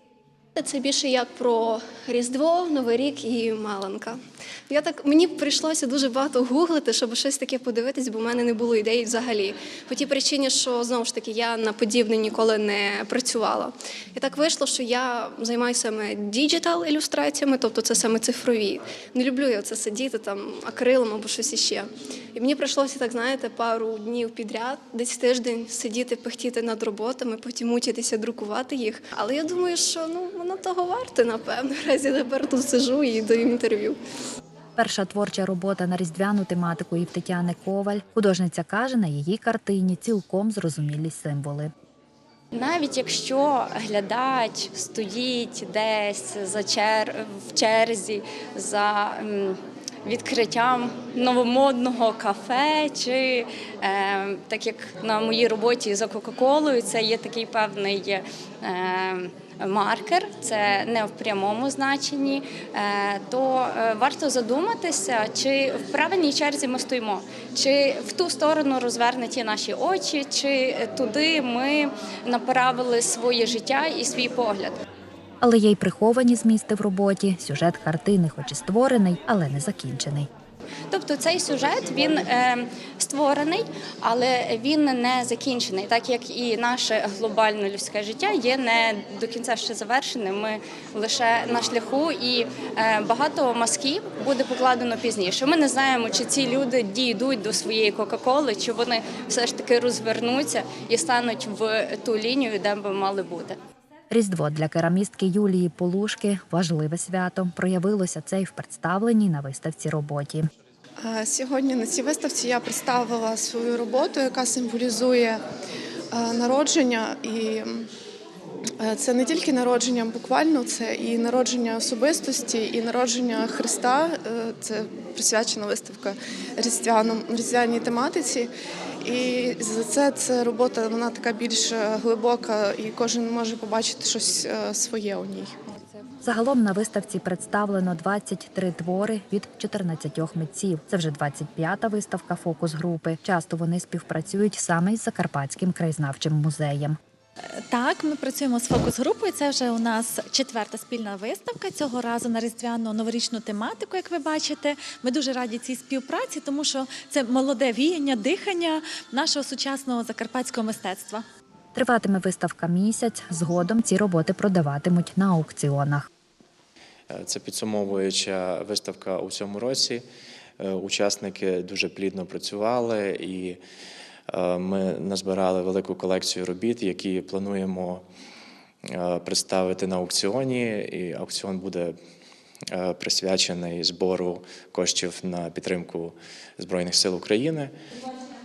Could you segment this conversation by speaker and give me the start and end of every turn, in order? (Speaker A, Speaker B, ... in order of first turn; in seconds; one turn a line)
Speaker A: 0.6-4.2
Speaker A: 4.7-34.0
Speaker B: 34.8-41.7
Speaker C: 42.5-74.7
Speaker B: 75.4-80.3
Speaker C: 80.9-103.6
Speaker B: 104.1-110.5
Speaker D: 111.0-115.4
Speaker D: 116.1-117.9
Speaker D: 118.8-128.5
Speaker D: 129.0-135.5
Speaker B: 136.2-147.0
Speaker E: 147.7-161.2
Speaker B: 161.7-166.1
Speaker F: 167.1-170.0
Speaker F: 170.6-173.6
Speaker F: 174.3-178.0
Speaker F: 178.9-181.9
Speaker F: 182.7-187.7